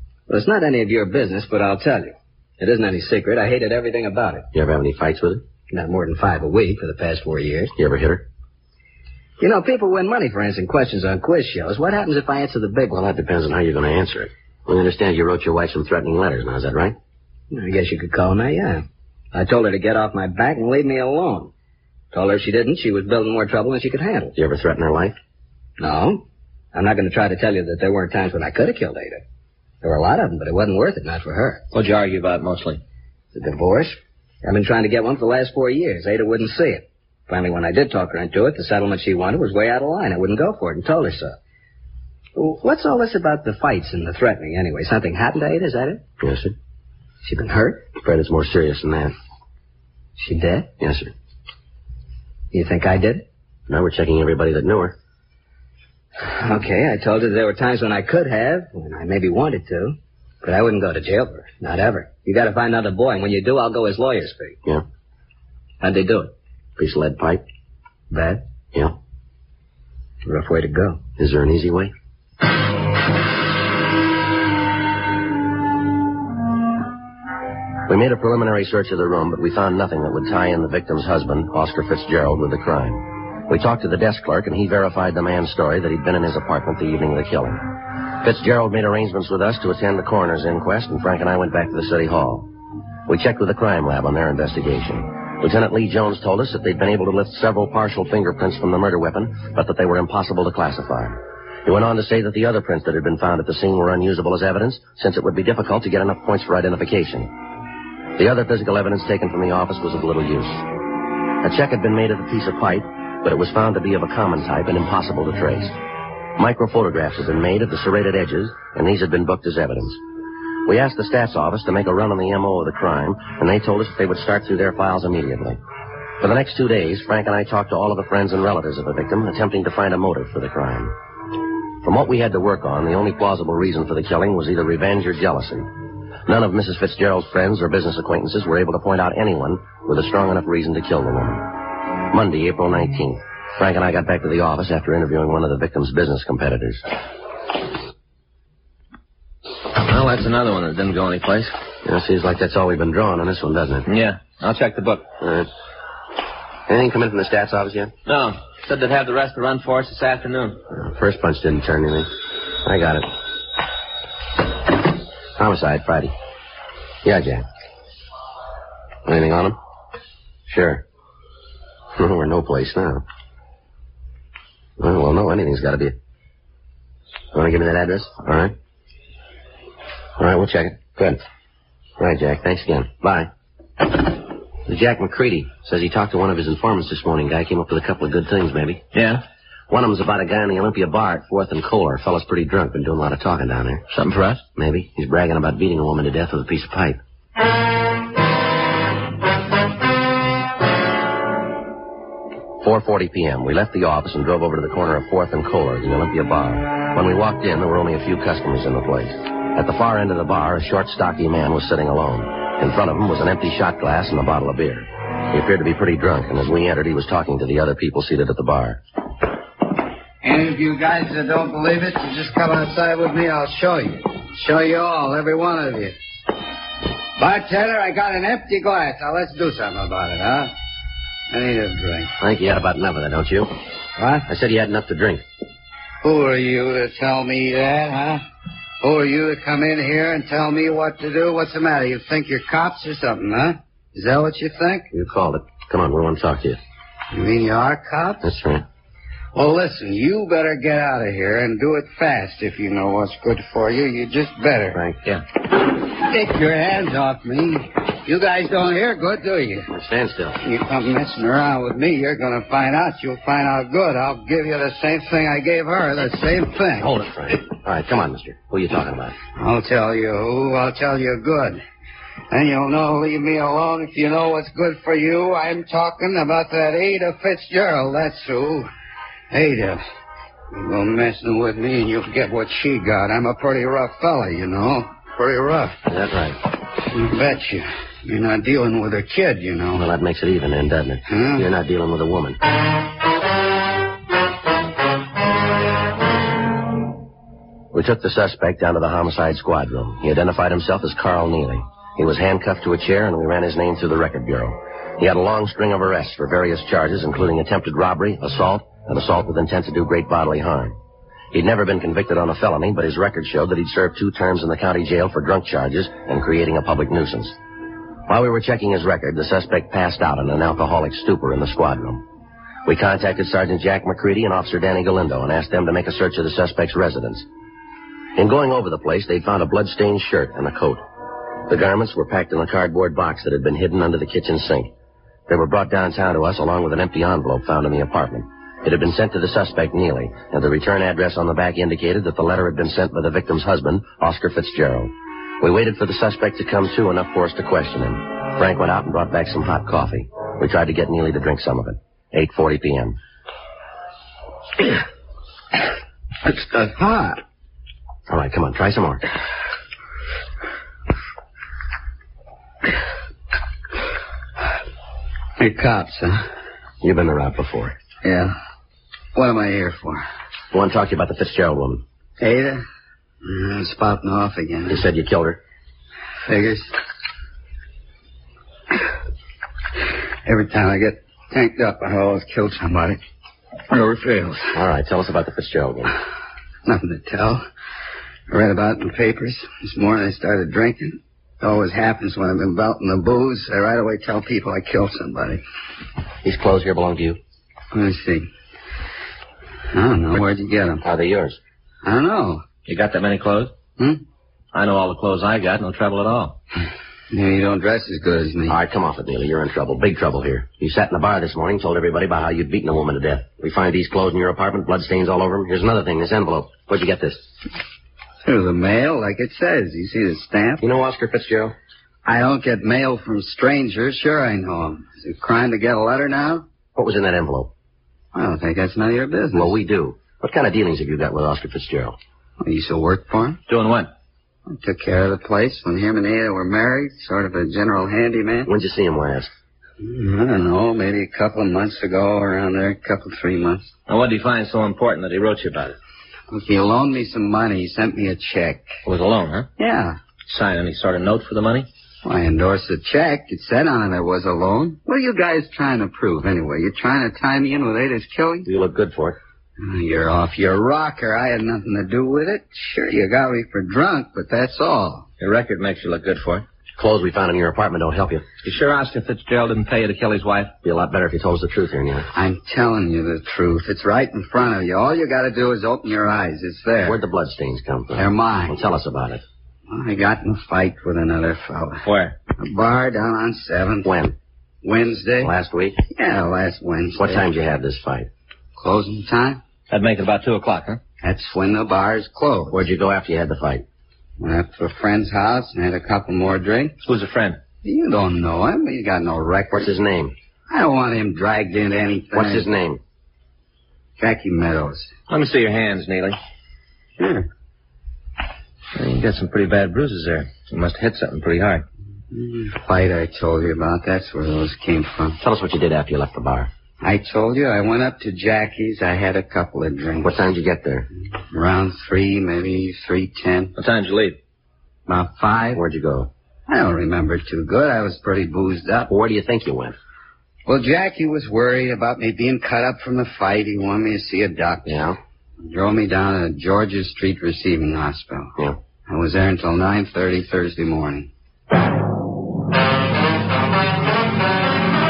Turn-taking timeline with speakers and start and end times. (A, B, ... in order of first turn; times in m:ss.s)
0:00.3-0:04.5 A
0:04.5-0:05.4 B
0:05.7-0:07.7 A
0:07.8-0:08.3 B
0:09.4-0:13.0 A
0:12.9-0:17.0 B
0:17.5-0:21.5 A
0:22.1-0:24.3 A
0:24.4-0:25.2 B
0:25.8-0:29.2 A
0:29.8-0:31.6 A
0:31.7-0:32.8 C
0:33.3-0:41.4 A
0:42.4-0:46.0 A
0:46.2-0:46.6 B
0:47.2-0:47.9 A
0:48.0-0:49.2 B
0:50.2-0:50.7 A
0:50.8-0:51.1 B
0:52.5-0:53.3 A
0:53.7-0:55.0 B
0:56.2-1:04.6 A
1:05.8-1:06.3 A
1:06.8-1:07.4 B
1:08.1-1:08.4 A
1:10.2-1:11.0 A
1:11.2-1:11.9 B
1:17.9-1:32.5 B
1:33.1-1:47.3 B
1:48.2-1:50.7 B
1:51.4-1:55.8 B
1:56.4-2:00.0 B
2:00.7-2:05.6 B
2:06.2-2:10.9 B
2:11.8-2:15.7 B
2:16.2-2:26.9 B
2:29.8-2:31.6 C
2:31.8-2:33.9 B
2:33.9-2:35.1 C
2:35.2-2:35.5 B
2:36.7-2:37.9 B
2:38.0-2:40.6 C
2:40.7-2:42.1 B
2:42.6-2:43.1 B
2:45.4-2:46.1 B
2:47.0-2:47.5 B
2:49.0-2:49.6 B
2:50.5-2:50.8 B
2:52.0-2:53.0 B
2:54.8-2:56.0 B
2:57.3-2:58.6 B
3:00.2-3:01.2 B
3:02.0-3:03.3 B
3:04.7-3:08.8 B
3:08.9-3:09.2 C
3:09.7-3:13.9 B
3:13.9-3:14.4 C
3:14.6-3:17.0 B
3:22.6-3:38.8 B
3:40.2-3:46.0 D
3:47.2-3:50.5 D
3:51.3-3:52.1 D
3:52.2-3:53.5 B
3:54.0-3:54.2 D
3:54.3-3:55.2 B
3:56.0-3:58.2 D
3:58.8-4:04.9 D
4:04.9-4:06.6 B
4:07.1-4:08.3 D
4:08.2-4:08.6 B
4:09.3-4:14.8 D
4:14.7-4:15.0 B
4:15.6-4:19.7 D
4:19.7-4:20.4 B
4:20.4-4:27.0 D
4:26.8-4:29.2 B
4:29.4-4:31.6 D
4:32.3-4:38.7 D
4:39.3-4:39.8 D
4:40.5-4:45.8 D
4:45.9-4:46.4 B
4:46.9-4:49.9 D
4:49.7-4:52.4 B
4:51.1-4:51.5 D
4:57.7-5:10.8 B
5:11.3-5:17.4 B
5:18.1-5:22.0 B
5:22.6-5:27.3 B
5:28.2-5:30.8 B
5:31.5-5:34.7 B
5:35.3-5:53.0 B
5:56.5-5:57.2 D
5:58.1-5:59.0 B
6:05.4-6:06.2 D
6:06.8-6:07.8 B
6:08.0-6:08.4 D
6:09.2-6:10.0 D
6:10.5-6:11.8 B
6:12.2-6:12.6 D
6:13.2-6:14.8 D
6:14.7-6:15.4 B
6:16.3-6:16.7 D
6:20.2-6:23.0 D
6:23.7-6:24.6 D
6:24.5-6:26.0 B
6:26.6-6:27.4 D
6:28.3-6:35.4 D
6:36.2-6:37.2 B
6:37.7-6:38.3 D
6:39.7-6:40.8 D
6:40.8-6:41.4 B
6:41.8-6:42.4 D
6:42.7-6:43.6 C
6:44.5-6:46.4 C
6:47.1-6:48.6 D
6:48.5-6:57.3 B
6:58.2-7:00.6 D
7:00.6-7:01.6 B
7:02.0-7:06.4 D
7:06.8-7:07.5 B
7:08.1-7:09.6 D
7:09.3-7:12.0 B
7:12.4-7:13.4 D
7:13.5-7:13.9 C
7:14.5-7:18.5 D
7:18.5-7:19.3 B
7:19.8-7:23.7 D
7:23.9-7:25.8 C
7:26.3-7:28.7 D
7:28.8-7:29.5 C
7:29.6-7:30.0 D
7:30.3-7:31.7 C
7:32.0-7:38.5 D
7:38.5-7:39.2 B
7:39.6-7:45.1 D
7:45.2-7:46.5 C
7:46.8-7:48.3 B
7:48.4-7:50.5 C
7:50.6-7:52.1 B
7:52.1-7:57.0 D
7:56.8-7:59.2 B
7:58.0-7:58.6 D
7:59.7-8:01.8 D
8:01.8-8:02.2 C
8:02.4-8:03.9 D
8:03.8-8:04.2 B
8:04.6-8:05.3 D
8:05.2-8:05.8 B
8:05.9-8:07.2 D
8:07.0-8:08.1 B
8:08.6-8:09.4 D
8:09.7-8:10.8 C
8:11.0-8:12.6 D
8:12.5-8:13.6 B
8:14.2-8:16.8 D
8:16.8-8:17.4 C
8:17.6-8:19.7 D
8:19.5-8:20.2 B
8:20.5-8:22.5 D
8:22.1-8:22.8 B
8:24.0-8:24.9 D
8:25.1-8:26.2 C
8:27.0-8:27.3 D
8:28.8-8:31.6 C
8:32.1-8:35.2 D
8:35.2-8:36.5 B
8:36.8-8:40.2 D
8:40.0-8:40.9 B
8:41.3-8:43.5 D
8:43.6-8:44.2 C
8:44.9-8:45.6 D
8:45.5-8:46.1 B
8:46.5-8:48.9 D
8:48.9-8:49.8 B
8:50.5-8:54.8 D
8:54.7-8:55.0 B
8:55.4-8:58.3 D
8:58.9-9:01.1 D